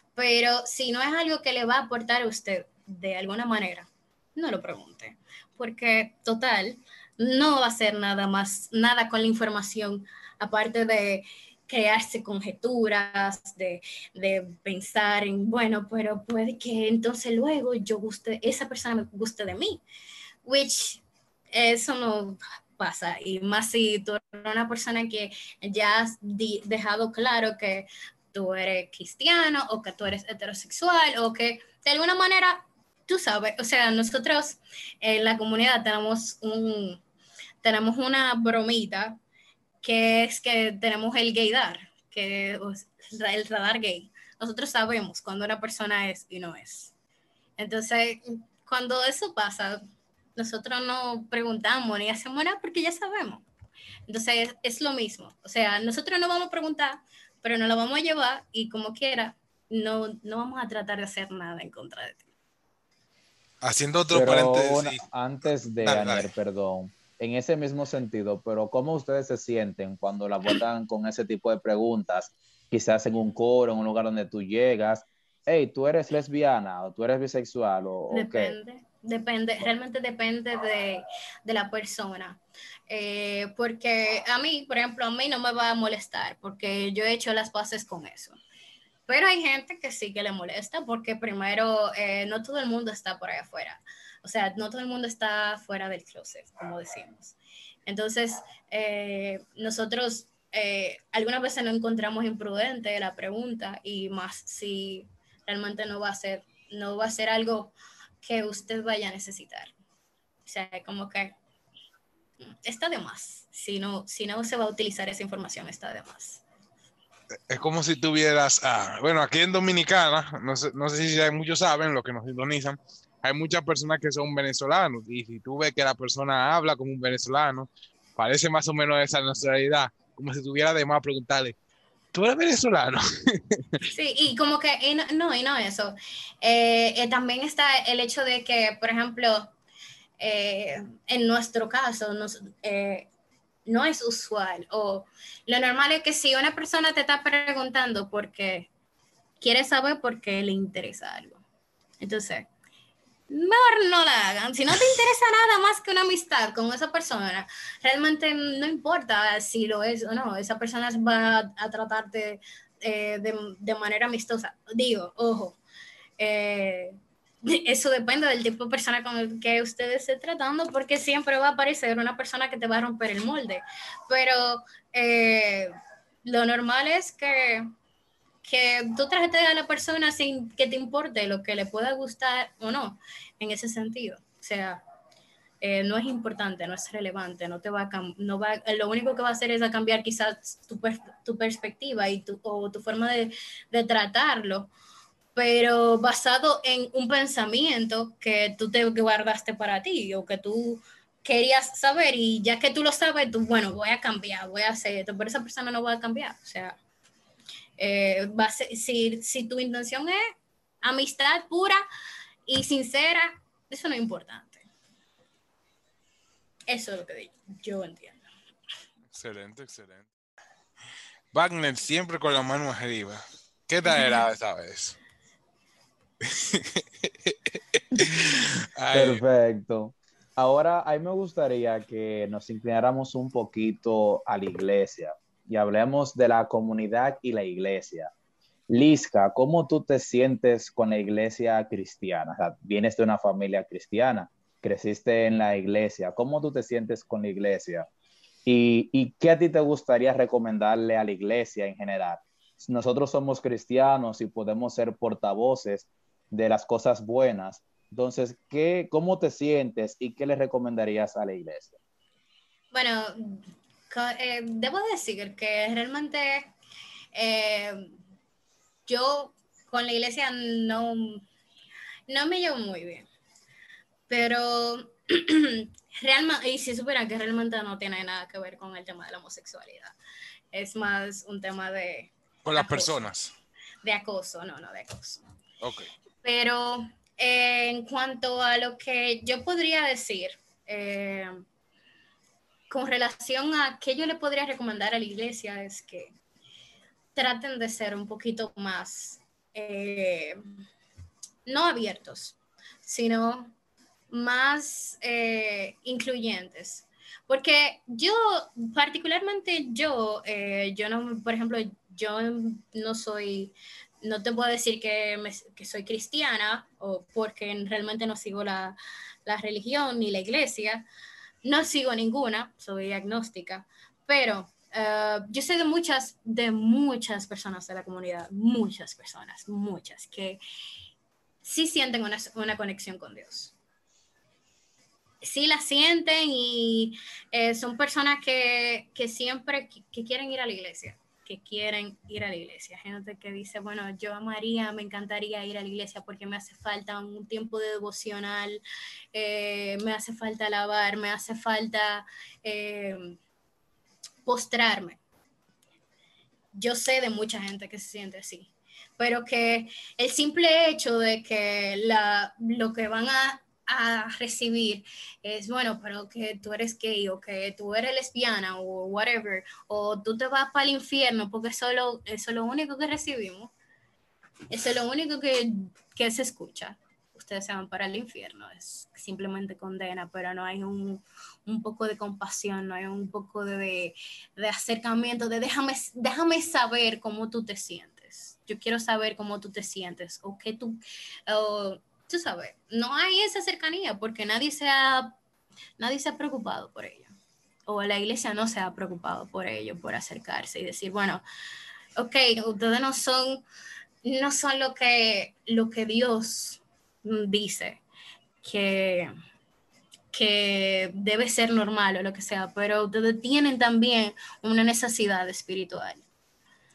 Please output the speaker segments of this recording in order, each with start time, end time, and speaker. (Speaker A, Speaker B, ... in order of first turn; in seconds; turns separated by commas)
Speaker A: 0.2-19.8, Speaker A: 20.4-37.0, Speaker A: 37.6-39.2, Speaker A: 39.8-46.9, Speaker A: 47.6-49.8, Speaker A: 50.4-53.5, Speaker A: 54.1-62.2, Speaker B: 63.6-65.0, Speaker C: 64.1-78.6, Speaker B: 65.8-66.3, Speaker A: 78.1-88.4, Speaker A: 89.1-97.3, Speaker A: 97.9-109.7, Speaker A: 110.5-111.4, Speaker A: 112.5-116.4, Speaker B: 117.5-131.6, Speaker B: 132.1-133.8, Speaker A: 133.9-139.5, Speaker A: 140.2-143.1, Speaker A: 143.7-148.7, Speaker A: 149.4-151.4, Speaker A: 152.0-152.5, Speaker A: 153.3-165.6, Speaker A: 166.2-175.7, Speaker A: 176.2-177.7, Speaker A: 178.4-184.8, Speaker A: 185.6-194.7, Speaker A: 195.3-206.8, Speaker A: 207.8-210.2, Speaker A: 210.8-211.8, Speaker A: 212.5-214.7, Speaker A: 216.7-218.2, Speaker B: 219.1-220.1, Speaker B: 221.3-225.0, Speaker A: 223.9-224.3, Speaker B: 226.2-229.2, Speaker C: 228.9-238.1, Speaker C: 238.7-247.9, Speaker C: 248.5-261.8, Speaker A: 262.7-266.5, Speaker A: 267.1-267.9, Speaker A: 268.9-271.2, Speaker A: 272.1-273.1, Speaker A: 274.1-280.0, Speaker A: 280.5-283.1, Speaker B: 282.4-283.3, Speaker A: 283.8-285.2, Speaker B: 285.6-285.9, Speaker A: 286.2-291.4, Speaker A: 292.7-296.1, Speaker A: 297.1-300.4, Speaker A: 301.5-303.5, Speaker A: 304.1-320.9, Speaker A: 321.4-330.4, Speaker A: 331.4-333.6, Speaker A: 335.2-348.6, Speaker A: 349.1-353.2, Speaker A: 354.2-355.0, Speaker A: 356.5-373.5, Speaker A: 374.5-395.2, Speaker A: 395.8-397.1, Speaker A: 397.7-401.2, Speaker A: 402.0-403.4, Speaker A: 404.0-407.8, Speaker A: 408.4-409.1, Speaker A: 410.1-416.0